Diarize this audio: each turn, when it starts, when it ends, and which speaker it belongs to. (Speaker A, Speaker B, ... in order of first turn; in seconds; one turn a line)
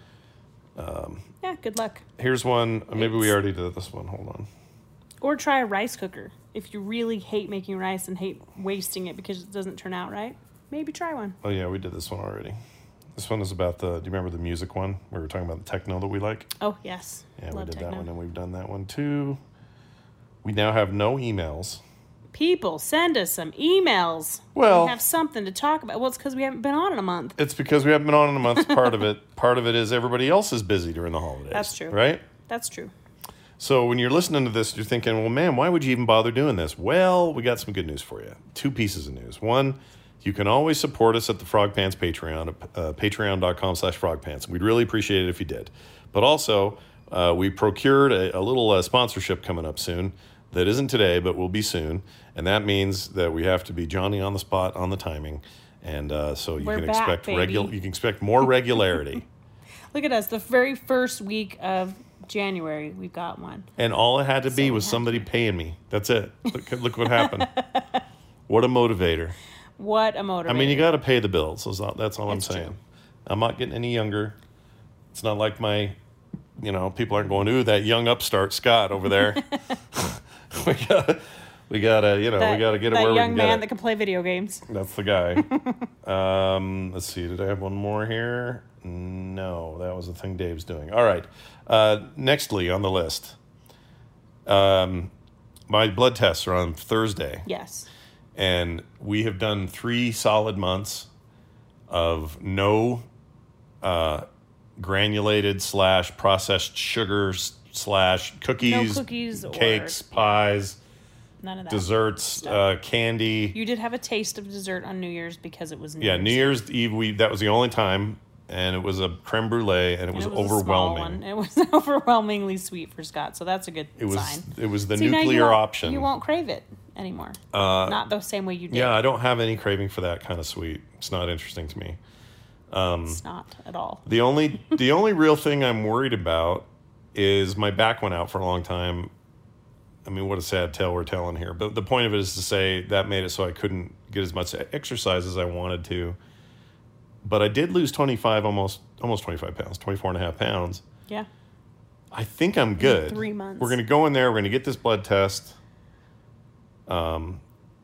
Speaker A: 0.8-1.3
Speaker B: 1.4-2.0
Speaker A: 2.2-4.5
Speaker B: 2.9-3.3
Speaker B: 5.2-11.3
Speaker A: 11.4-12.6
Speaker A: 13.1-16.5
Speaker B: 16.6-18.1
Speaker A: 17.4-19.4
Speaker A: 20.4-21.8
Speaker B: 22.3-27.4
Speaker A: 24.5-25.0
Speaker A: 27.4-32.2
Speaker B: 28.5-28.9
Speaker B: 31.5-32.9
Speaker A: 33.6-59.2
Speaker B: 56.6-57.7
Speaker B: 59.9-63.7
Speaker A: 63.8-67.5
Speaker B: 64.5-65.2
Speaker B: 66.9-68.0
Speaker A: 68.5-69.3
Speaker B: 69.8-70.9
Speaker A: 70.5-74.4
Speaker B: 72.3-72.7
Speaker A: 75.1-76.0
Speaker A: 76.6-83.6
Speaker B: 79.1-79.8
Speaker B: 82.4-84.7
Speaker A: 84.7-85.4
Speaker B: 85.3-85.8
Speaker A: 86.0-93.4
Speaker A: 94.5-95.1
Speaker A: 95.7-97.5
Speaker B: 97.5-97.9
Speaker A: 98.3-101.1
Speaker A: 101.9-103.1
Speaker A: 103.8-104.2
Speaker A: 104.8-110.8
Speaker B: 108.6-110.3
Speaker B: 111.4-112.6
Speaker A: 111.7-113.5
Speaker B: 113.5-116.6
Speaker A: 116.0-121.2
Speaker B: 120.1-128.9
Speaker A: 124.0-126.1
Speaker A: 127.5-128.0
Speaker A: 128.7-132.0
Speaker A: 132.7-133.2
Speaker B: 133.1-134.0
Speaker A: 134.1-139.1
Speaker A: 140.0-146.2
Speaker A: 147.2-150.8
Speaker A: 152.1-155.6
Speaker B: 152.8-153.8
Speaker A: 156.9-157.4